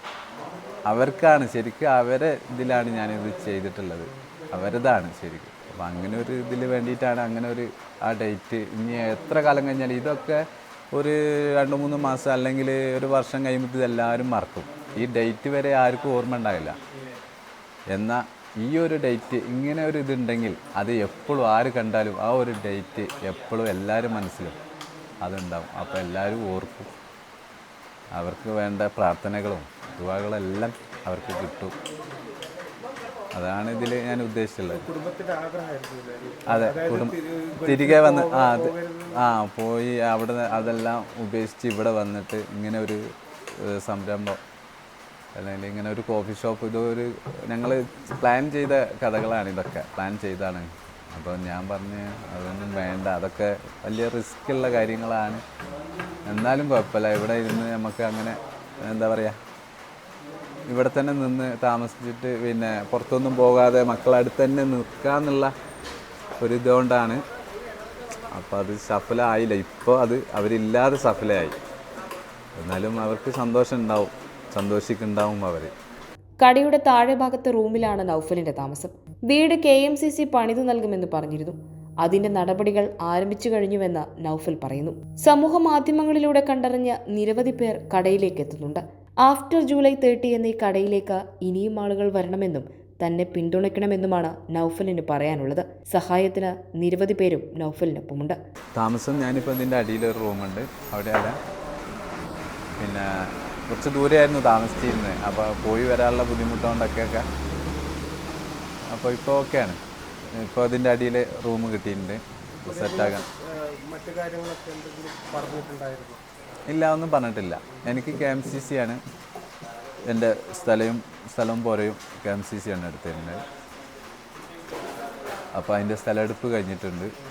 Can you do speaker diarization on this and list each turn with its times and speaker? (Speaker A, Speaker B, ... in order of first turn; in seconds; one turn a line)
Speaker A: 0.9-16.8
Speaker A: 17.9-24.6
Speaker A: 25.2-26.9
Speaker A: 28.1-31.7
Speaker A: 33.3-34.9
Speaker B: 34.7-39.2
Speaker A: 36.5-44.4
Speaker A: 45.3-55.4
Speaker A: 56.2-59.4
Speaker A: 60.7-65.5
Speaker A: 66.4-67.2
Speaker A: 68.3-71.6
Speaker A: 72.5-75.7
Speaker C: 76.4-98.4
Speaker A: 98.8-101.4
Speaker A: 102.8-107.3
Speaker A: 108.9-109.8
Speaker A: 110.3-113.2
Speaker B: 112.6-116.2
Speaker A: 116.7-119.0
Speaker A: 120.1-123.4
Speaker A: 125.5-127.1